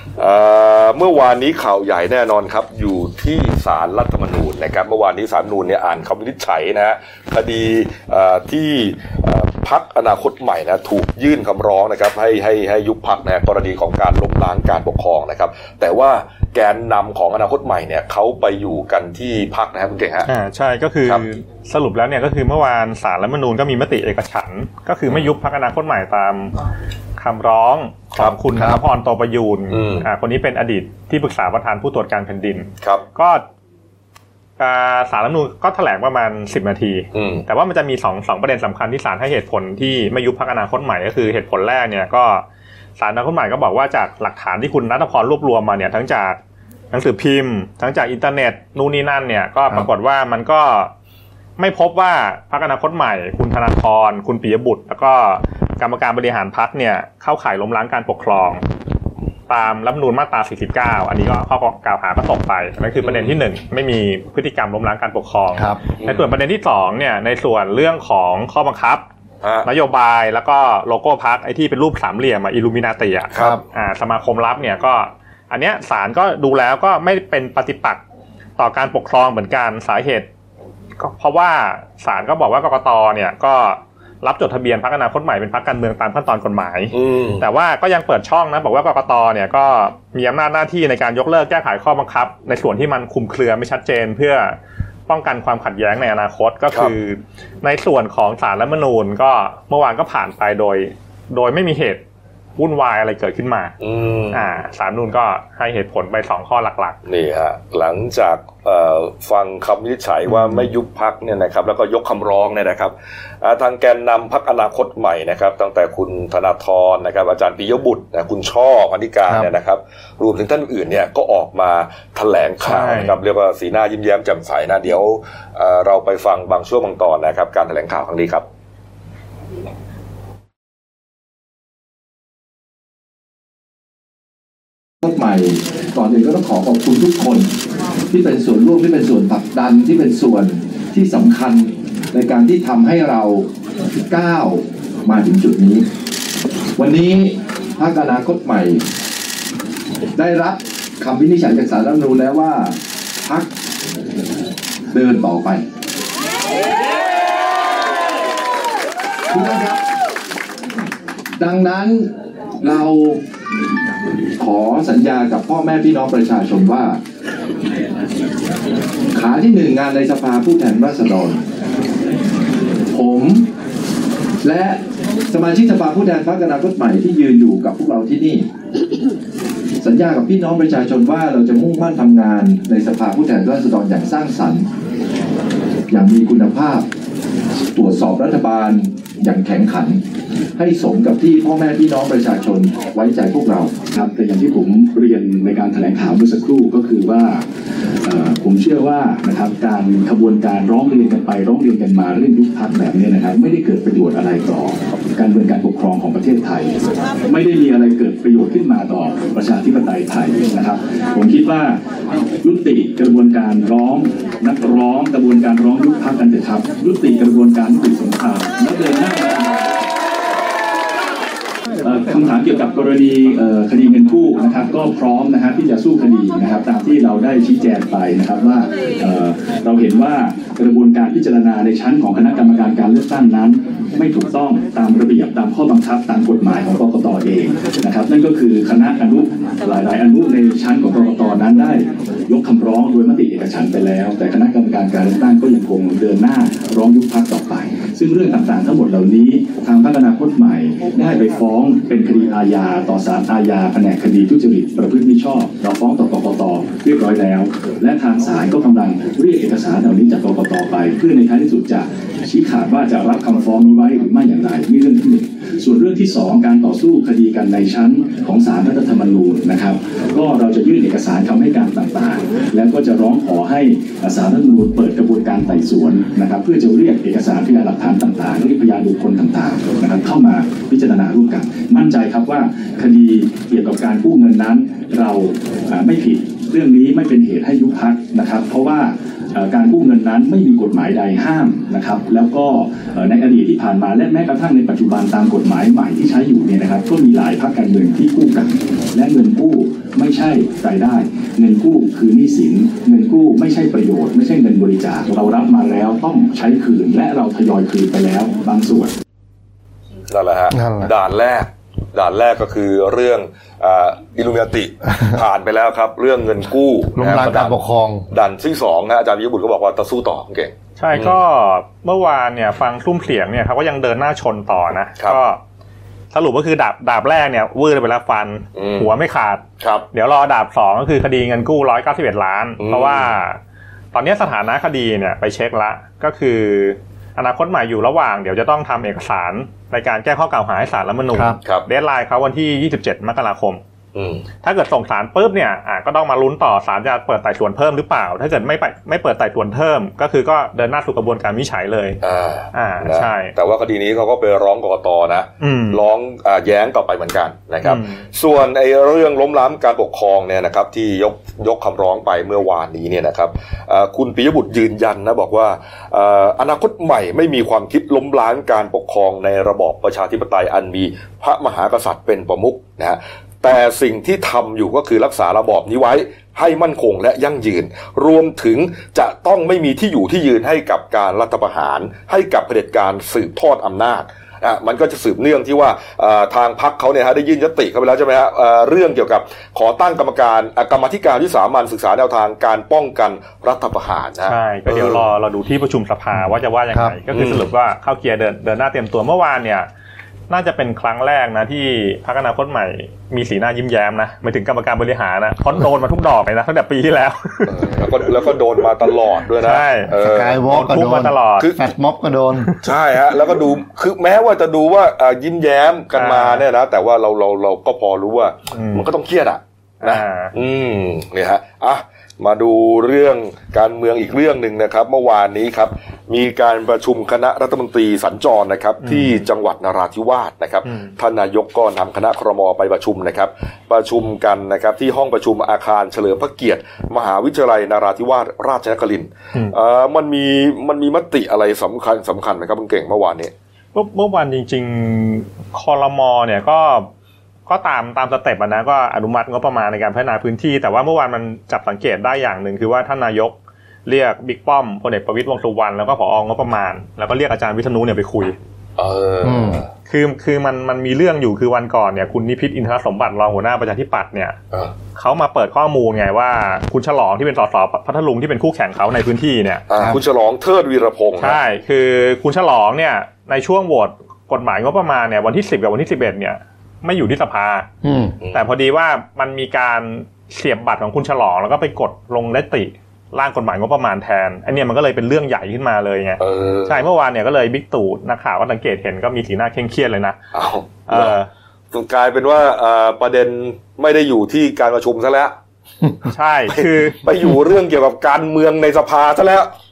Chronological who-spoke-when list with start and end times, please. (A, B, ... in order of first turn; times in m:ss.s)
0:00.2-0:20.3 A
0:20.3-0:26.6 B
0:27.2-0:33.4 B
0:28.6-0:28.8 C
0:29.7-0:30.1 A
0:34.6-0:42.4 B
0:37.1-0:37.4 A
0:43.0-0:46.4 B
0:46.9-0:50.9 B
0:51.6-0:58.6 B
0:59.5-1:09.0 B
1:03.0-1:03.4 A
1:05.6-1:05.8 C
1:06.0-1:06.3 A
1:09.4-1:09.7 A
1:09.6-1:18.0 B
1:13.3-1:13.6 A
1:13.4-1:13.6 C
1:18.6-1:20.3 B
1:21.0-1:34.6 B
1:26.9-1:27.4 A
1:35.1-1:42.0 B
1:42.6-1:43.8 B
1:43.8-1:44.5 A
1:44.3-1:47.0 B
1:47.1-2:08.4 A
2:02.6-2:03.2 B
2:15.0-2:17.5 D
2:18.1-2:23.5 D
2:24.1-2:25.8 D
2:26.8-2:28.8 D
2:30.2-2:33.5 D
2:34.9-2:35.6 D
2:39.3-2:39.8 D
2:41.4-2:43.2 D
2:44.4-2:47.0 D
2:49.1-2:51.4 D
2:52.9-2:53.5 D
2:54.4-2:58.5 D
2:59.8-3:04.7 D
3:05.9-3:06.9 D
3:07.7-3:10.0 D
3:10.6-3:13.8 D
3:13.9-3:17.4 E
3:18.0-3:31.8 E
3:32.4-3:39.8 E
3:41.8-5:08.9 E
5:10.1-5:17.6 A
5:10.5-5:10.9 C
5:17.0-5:18.1 C
5:18.1-5:21.2 A
5:20.8-5:25.4 B
5:26.1-5:33.4 B
5:28.6-5:28.9 A
5:29.6-5:29.9 A
5:32.6-5:33.1 A
5:33.9-5:43.6 B
5:41.1-5:41.4 C
5:44.0-5:44.2 A
5:44.4-5:52.0 B
5:52.0-6:35.0 A
5:52.5-5:53.3 B
5:55.4-5:55.8 B
5:57.6-5:58.0 B
6:34.3-6:39.7 B
6:37.1-6:37.5 A
6:40.3-6:47.8 B
6:47.5-6:50.4 A
6:49.4-6:49.9 B
6:49.9-6:52.5 C
6:50.5-6:51.5 B
6:52.6-7:23.3 A
6:56.0-6:56.4 B
6:58.5-6:58.9 B
6:59.8-7:00.3 B
7:08.8-7:09.2 B
7:10.7-7:10.9 B
7:23.7-7:26.9 B
7:27.5-7:33.4 B
7:33.9-7:38.4 B
7:38.8-7:39.7 A
7:39.2-7:39.6 C
7:39.9-7:44.4 B
7:45.0-7:49.7 B
7:49.7-7:51.4 A
7:51.2-7:57.7 B
7:57.8-7:58.2 C
7:58.2-7:58.5 A
7:58.3-8:10.2 B
8:06.2-8:06.8 A
8:10.3-8:11.2 A
8:10.9-8:11.3 B
8:11.7-8:15.4 A
8:16.1-8:17.0 B
8:16.5-8:19.5 A